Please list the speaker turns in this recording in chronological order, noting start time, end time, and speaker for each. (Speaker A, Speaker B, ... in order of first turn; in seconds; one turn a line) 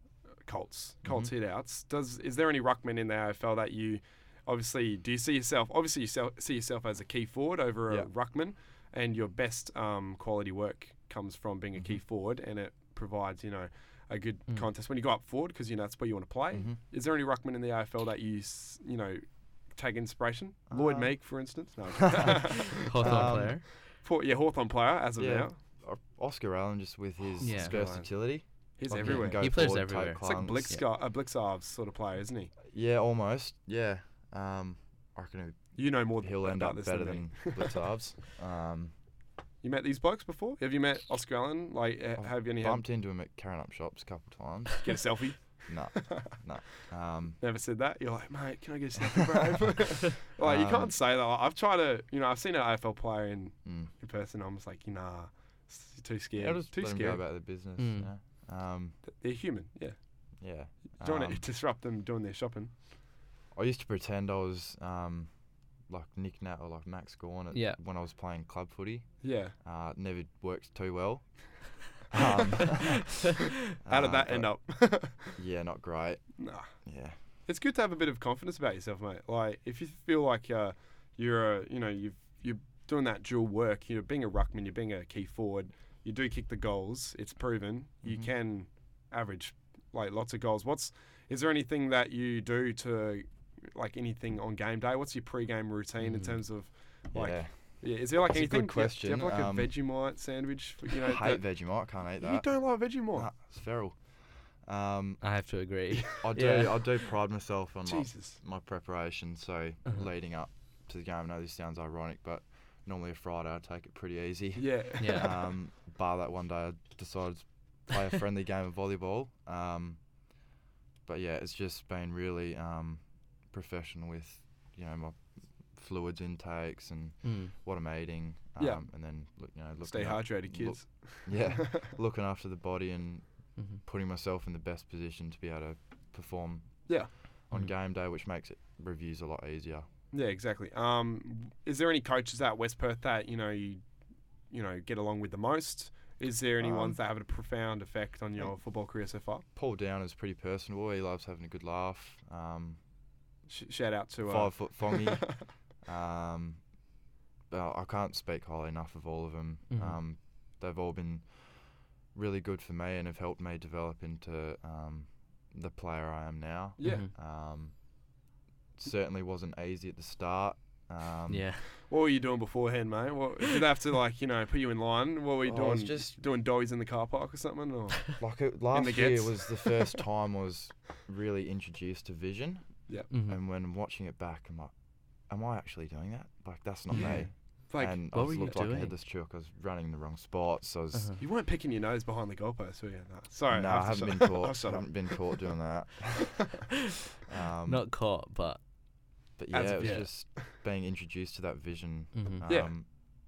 Speaker A: 0.5-25.6
Speaker B: 1.1-1.3
Speaker B: 11.8-12.0
Speaker B: 16.5-16.8
Speaker B: 20.7-21.2
Speaker B: 22.1-22.4
Speaker C: 22.7-23.6
Speaker B: 23.0-23.6
Speaker B: 25.2-30.8
Speaker C: 27.4-27.8
Speaker A: 27.5-28.1
Speaker A: 28.8-32.5
Speaker C: 29.0-30.8
Speaker B: 32.6-38.9
Speaker A: 35.8-37.8
Speaker A: 39.6-42.8
Speaker B: 42.2-47.4
Speaker A: 44.8-46.4
Speaker A: 47.4-57.2
Speaker B: 50.4-50.9
Speaker B: 53.6-53.9
Speaker B: 56.4-59.0
Speaker C: 57.8-58.1
Speaker A: 59.1-60.0
Speaker B: 60.4-61.4
Speaker A: 61.0-62.8
Speaker B: 63.5-65.3
Speaker B: 65.9-73.2
Speaker C: 67.5-67.8
Speaker A: 69.2-69.5
Speaker A: 73.8-75.4
Speaker B: 73.8-74.5
Speaker B: 75.3-77.2
Speaker A: 76.4-76.7
Speaker A: 77.5-101.5
Speaker B: 88.0-88.3
Speaker C: 96.0-96.4
Speaker B: 97.1-99.7
Speaker B: 101.0-102.5
Speaker A: 102.2-103.3
Speaker B: 103.1-105.2
Speaker C: 105.2-106.8
Speaker A: 106.0-106.3
Speaker B: 106.2-120.0
Speaker A: 107.8-108.4
Speaker A: 114.6-115.4
Speaker C: 115.0-115.3
Speaker B: 121.1-139.9
Speaker C: 127.2-127.5
Speaker A: 128.6-128.8
Speaker A: 129.8-131.9
Speaker A: 140.1-143.8
Speaker A: 144.5-149.4
Speaker B: 146.6-147.0
Speaker B: 149.6-152.8
Speaker A: 153.5-155.4
Speaker B: 154.2-156.6
Speaker B: 157.5-161.5
Speaker C: 159.7-160.0
Speaker B: 162.1-167.7
Speaker A: 166.8-167.1
Speaker C: 166.8-167.1
Speaker B: 168.8-171.5
Speaker C: 171.3-171.7
Speaker A: 171.8-180.0
Speaker B: 175.4-176.2
Speaker B: 178.2-184.7
Speaker C: 183.1-183.4
Speaker B: 185.3-191.2
Speaker C: 186.9-187.3
Speaker A: 186.9-188.6
Speaker C: 188.1-188.9
Speaker C: 190.9-191.2
Speaker A: 191.2-195.5
Speaker B: 193.5-196.7
Speaker B: 197.3-197.8
Speaker C: 197.7-198.6
Speaker B: 199.4-202.9
Speaker A: 199.5-200.5
Speaker C: 199.8-200.1
Speaker C: 202.1-202.5
Speaker A: 202.5-202.7